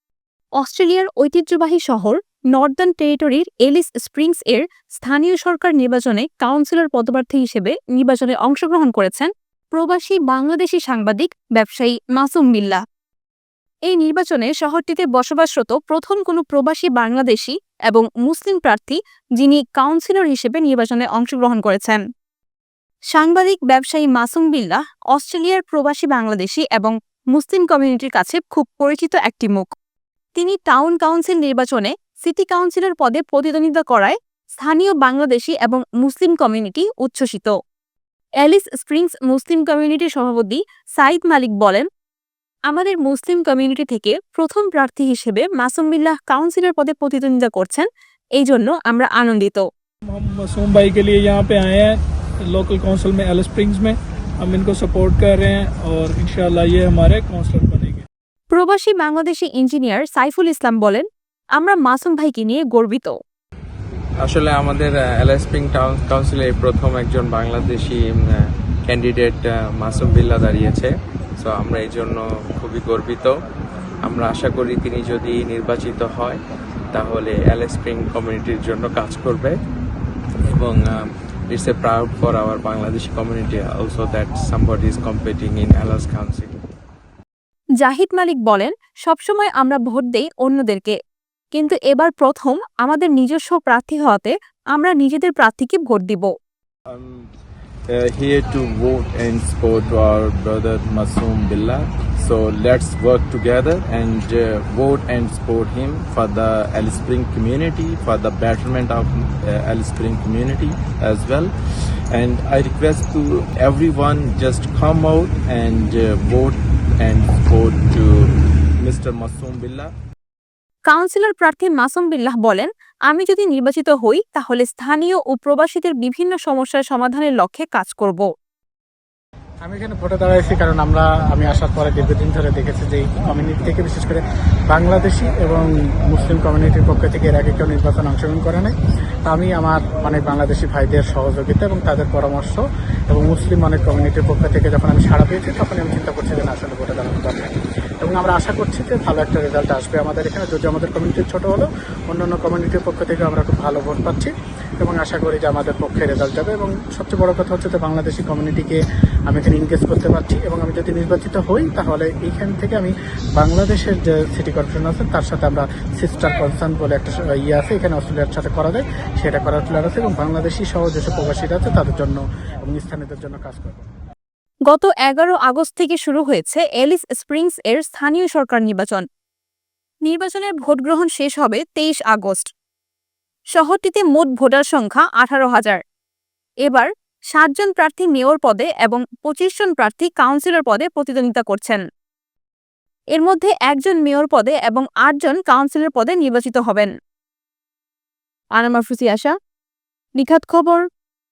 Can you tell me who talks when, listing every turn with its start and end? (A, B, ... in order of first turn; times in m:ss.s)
0:00.6-0:12.8 A
0:13.9-0:22.0 A
0:23.1-0:29.7 A
0:30.4-0:37.5 A
0:38.4-0:41.9 A
0:42.7-0:49.6 A
0:50.1-0:58.1 B
0:58.5-1:03.2 A
1:04.2-1:13.4 C
1:14.0-1:16.4 C
1:16.9-1:19.6 C
1:20.5-1:26.5 C
1:27.8-1:31.0 A
1:31.5-1:36.3 A
1:36.9-1:37.3 D
1:37.9-1:51.5 D
1:52.1-1:59.9 D
2:00.9-2:08.3 A
2:09.6-2:18.7 E
2:19.3-2:53.8 E
2:54.7-2:59.0 A
3:00.0-3:02.5 A
3:03.5-3:05.8 A
3:06.6-3:11.8 A
3:13.1-3:16.9 A
3:18.6-3:19.4 A
3:20.2-3:20.8 A